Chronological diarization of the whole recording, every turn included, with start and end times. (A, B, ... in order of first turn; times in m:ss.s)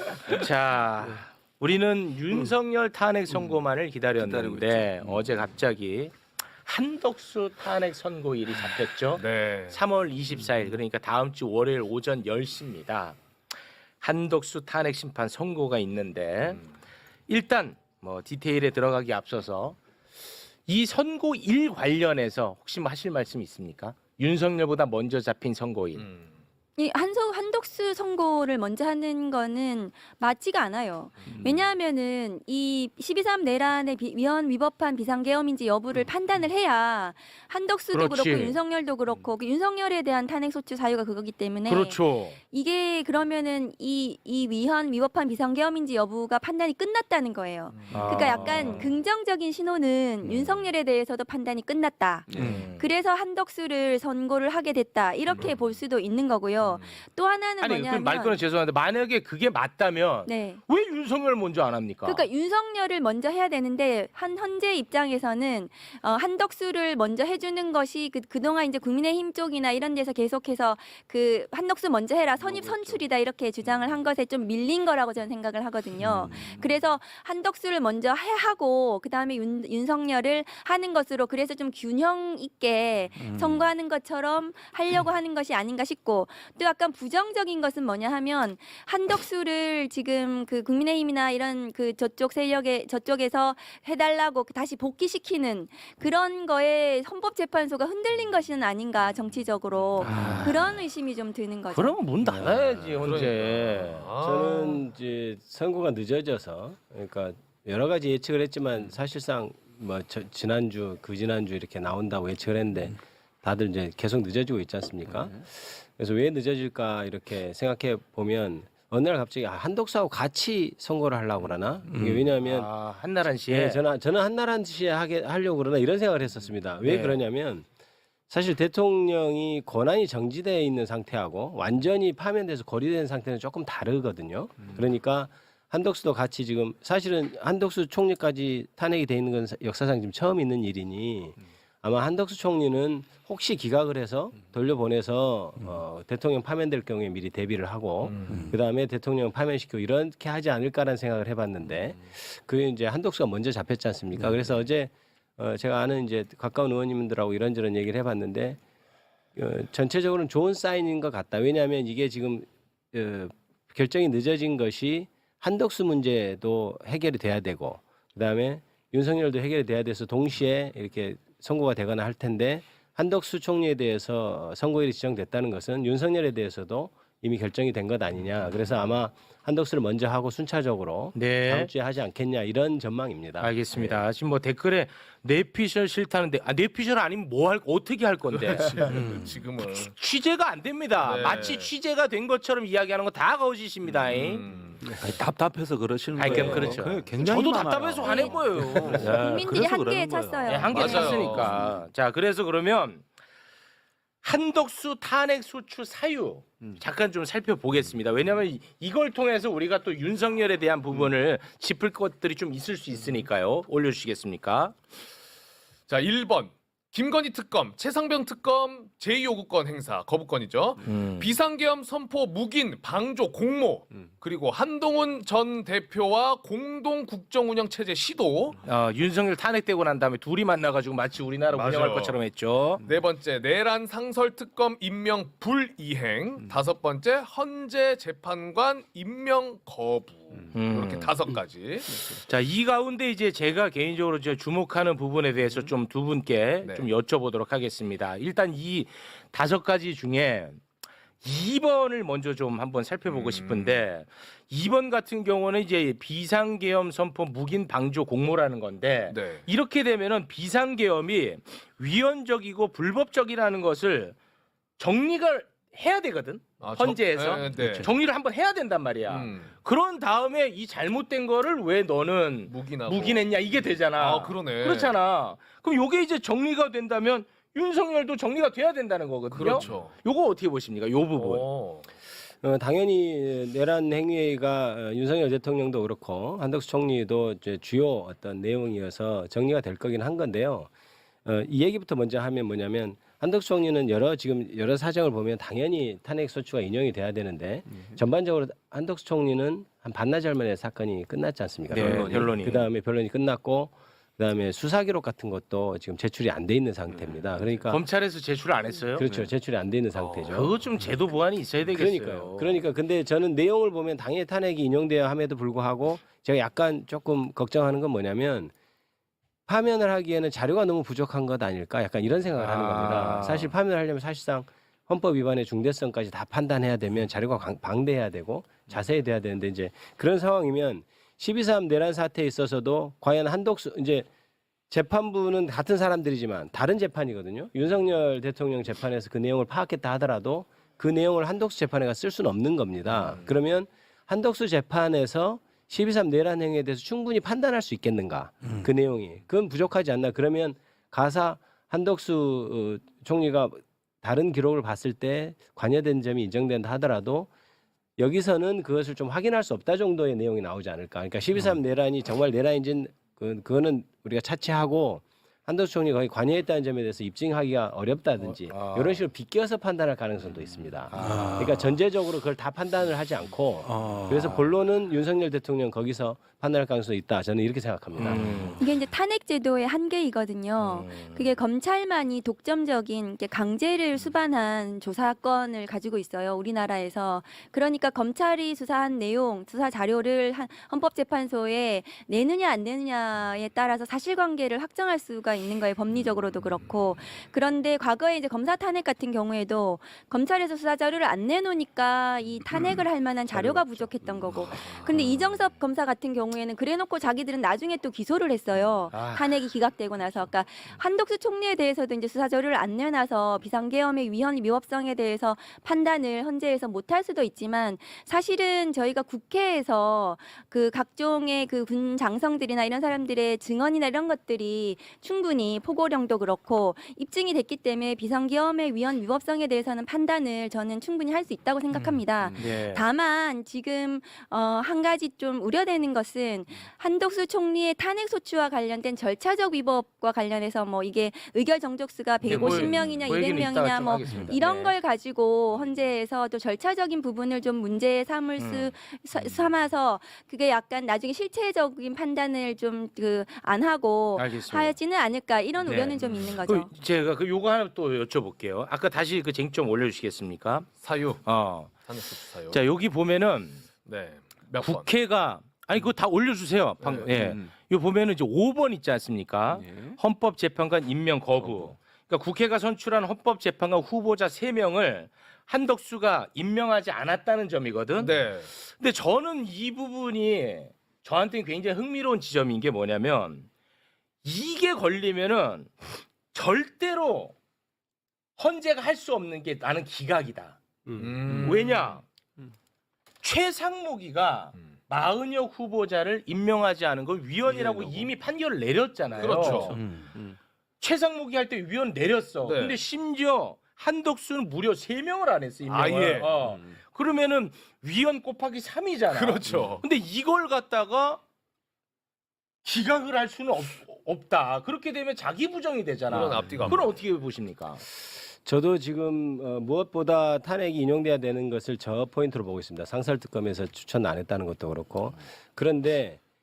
0:00.2-0:13.2 A
0:04.2-0:04.9 B
0:09.2-0:09.8 C
0:14.0-0:16.6 A
0:17.3-0:19.8 A
0:20.7-0:26.0 A
0:26.0-0:26.2 C
0:26.8-0:58.4 D
0:37.9-0:38.6 A
0:41.7-0:42.4 A
0:47.7-0:48.8 C
0:47.9-0:48.9 A
0:52.4-0:52.6 C
0:52.4-0:52.8 A
0:55.3-0:55.6 C
0:56.6-0:57.0 C
0:57.6-1:02.2 A
1:00.3-1:00.6 D
1:02.0-1:42.0 D
1:40.0-1:40.5 A
1:41.7-1:44.1 A
1:42.4-1:44.8 C
1:44.2-2:02.7 E
2:02.4-2:03.8 A
2:03.5-2:07.6 E
2:06.8-2:07.2 A
2:08.3-2:38.6 E
2:39.3-3:03.6 E
3:01.1-3:01.7 A
3:03.4-3:14.4 A
3:08.5-3:09.9 C
3:11.0-3:11.7 C
3:14.0-3:15.0 C
3:14.8-3:20.7 B
3:16.1-3:19.4 A
3:16.3-3:16.6 C
3:18.0-3:21.2 D
3:20.4-3:23.0 A
3:20.7-3:21.6 C
3:24.2-3:34.8 A
3:35.9-3:48.6 C
3:40.8-3:41.3 A
3:48.6-3:52.8 A
3:51.5-3:52.2 C
3:52.8-4:02.1 C
4:00.5-4:01.1 A
4:02.1-4:10.6 A
4:11.2-4:24.2 A
4:13.1-4:13.8 C
4:19.1-4:19.4 C
4:24.8-4:41.4 A
4:26.6-4:27.9 C
4:29.1-4:29.5 C
4:32.4-4:34.9 C
4:39.3-4:39.9 C
4:41.2-4:41.9 C
4:42.4-4:50.7 E
4:51.2-5:07.8 E
5:01.7-5:02.7 A
5:01.9-5:02.3 B
5:07.6-5:09.1 A
5:09.0-5:10.6 E
5:10.0-5:12.6 A
5:11.7-5:18.5 E
5:19.5-5:34.0 E
5:22.4-5:23.5 A
5:34.7-5:57.3 E
5:58.0-6:18.5 E
6:08.5-6:09.0 A
6:10.9-6:11.5 A
6:18.0-6:18.6 A
6:18.6-7:36.7 D
6:20.6-6:21.2 A
6:48.9-6:49.4 A
7:12.4-7:12.8 A
7:22.2-7:24.7 A
7:28.4-7:28.7 A
7:34.2-7:34.7 A
7:35.6-7:40.7 A
7:40.8-7:42.6 C
7:41.2-7:41.9 A
7:42.5-7:43.6 A
7:43.8-7:44.9 C
7:44.6-8:03.5 A
7:46.8-7:47.4 C
7:58.0-7:58.5 C
8:04.2-8:07.3 A
8:08.4-8:10.6 A
8:10.9-8:12.0 C
8:11.3-8:12.0 A
8:13.2-8:19.8 A
8:19.2-8:19.8 C
8:20.8-8:31.2 A
8:22.4-8:22.8 C
8:25.7-8:26.6 C
8:29.1-8:29.8 C
8:32.6-8:37.8 A
8:36.1-8:37.0 C
8:38.4-8:46.2 E